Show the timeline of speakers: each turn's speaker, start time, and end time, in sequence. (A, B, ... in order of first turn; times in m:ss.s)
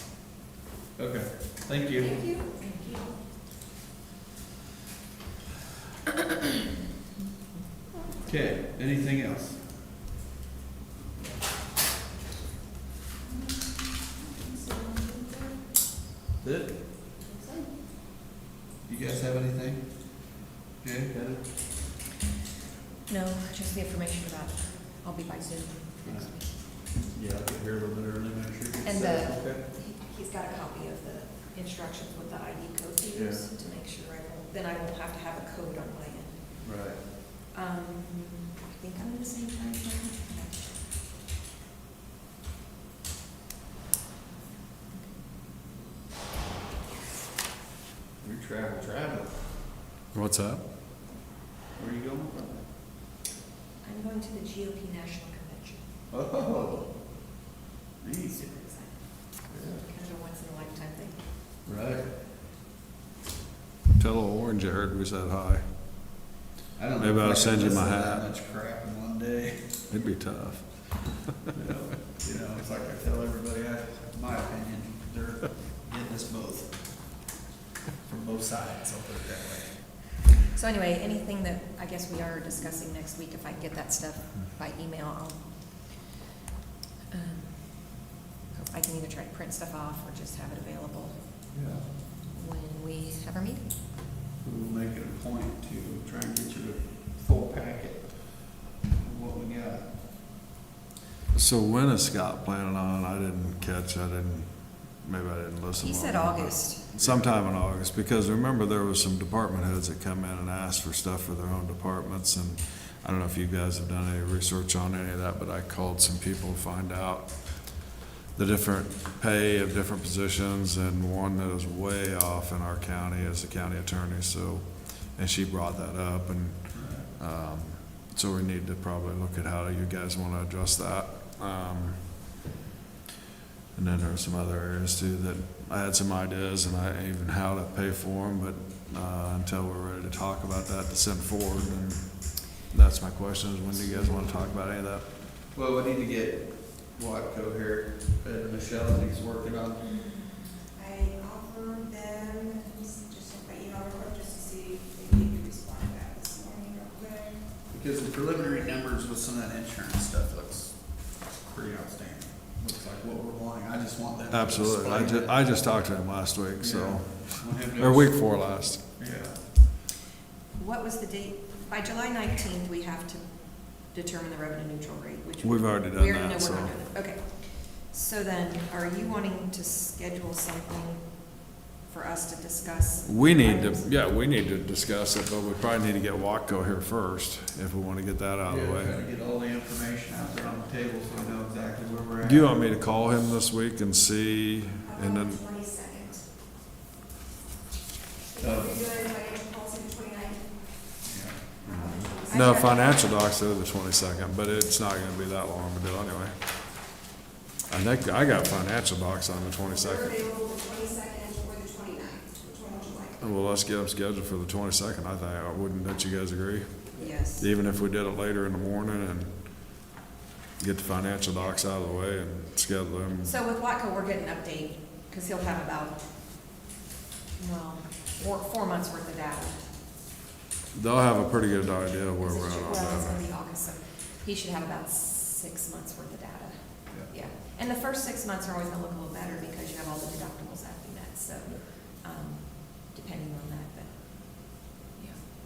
0:01.0-0:02.3 A
0:02.0-0:02.8 B
0:08.2-0:09.9 A
0:16.4-0:17.0 A
0:18.9-0:21.7 A
0:23.1-0:26.6 B
0:26.0-0:29.6 A
0:28.8-0:36.8 B
0:33.1-0:33.4 A
0:36.6-0:37.0 A
0:37.5-0:40.8 B
0:44.9-0:45.2 B
0:48.2-0:49.5 A
0:50.1-0:50.7 C
0:51.7-0:52.7 A
0:53.8-0:56.9 B
0:56.1-0:57.1 A
0:58.0-0:58.4 A
0:58.2-1:01.2 B
0:59.5-0:59.8 A
1:01.6-1:02.2 A
1:04.0-1:06.2 C
1:06.8-1:09.9 A
1:07.0-1:08.2 C
1:09.9-1:11.3 C
1:11.5-1:17.2 A
1:18.0-1:19.9 A
1:20.5-1:26.0 B
1:27.1-1:31.4 B
1:31.5-1:31.9 A
1:32.3-1:33.7 B
1:34.4-1:40.0 A
1:41.3-2:12.3 C
1:45.8-1:46.9 B
1:46.9-1:47.3 A
2:06.7-2:07.1 A
2:13.7-2:25.1 C
2:23.7-2:24.5 A
2:25.5-2:29.9 A
2:30.7-2:37.5 D
2:37.7-2:45.4 A
2:44.3-2:48.8 C
2:46.6-2:49.5 A
2:50.5-3:03.9 B
2:55.4-2:56.8 C
3:03.0-3:09.0 C
3:08.5-3:12.9 A
3:12.2-3:15.5 C
3:14.9-3:16.2 D
3:18.4-3:20.8 D
3:18.4-3:18.8 A
3:21.0-3:21.7 A
3:21.7-3:22.6 D
3:21.7-3:26.4 C
3:27.7-3:30.2 C
3:29.9-3:33.2 D
3:33.2-3:39.8 C
3:37.0-3:37.5 B
3:40.6-3:43.3 C
3:43.2-3:46.0 B
3:47.4-3:49.6 B
3:50.7-3:53.2 C
3:52.2-4:05.2 B